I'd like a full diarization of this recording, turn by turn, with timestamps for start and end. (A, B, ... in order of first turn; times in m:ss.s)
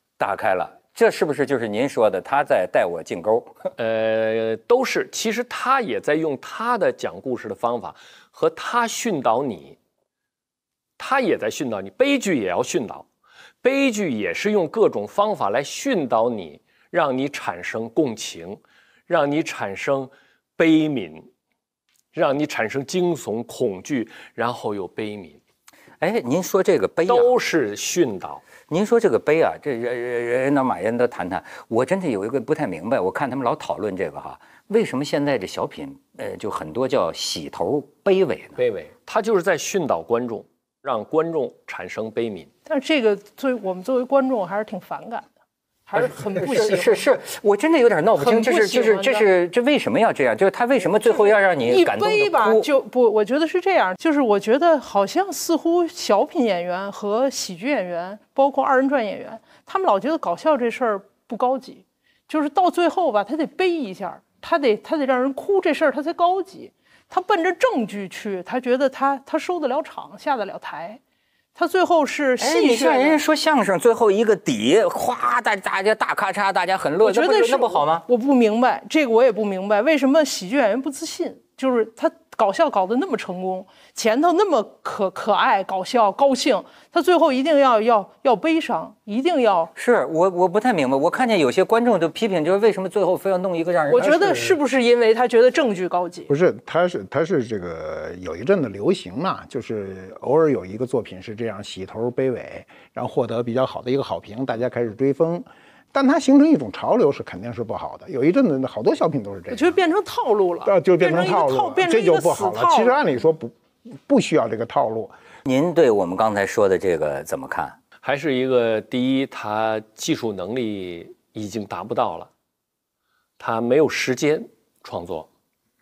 0:00.2-0:03.6 A
0:03.8-0:09.8 B
0:11.0-0:13.1 B
0:13.6-0:21.3 B
0:22.1-0:25.4 B
0:26.0-0:27.3 A
0:27.1-0:28.4 B
0:28.7-0:38.6 A
0:38.6-0:42.5 B
0:42.7-0:45.3 C
0:45.9-0:47.0 C
0:46.0-0:52.7 A
0:48.2-0:49.2 C
0:51.2-1:11.0 C
1:11.6-1:13.2 C
1:12.4-1:18.0 A
1:17.0-1:29.7 C
1:29.8-1:34.6 A
1:33.9-1:36.3 C
1:36.3-1:49.8 D
1:49.5-1:53.0 C
1:50.6-1:55.1 D
1:55.4-1:57.8 A
1:58.0-2:02.3 B
2:03.4-2:05.3 B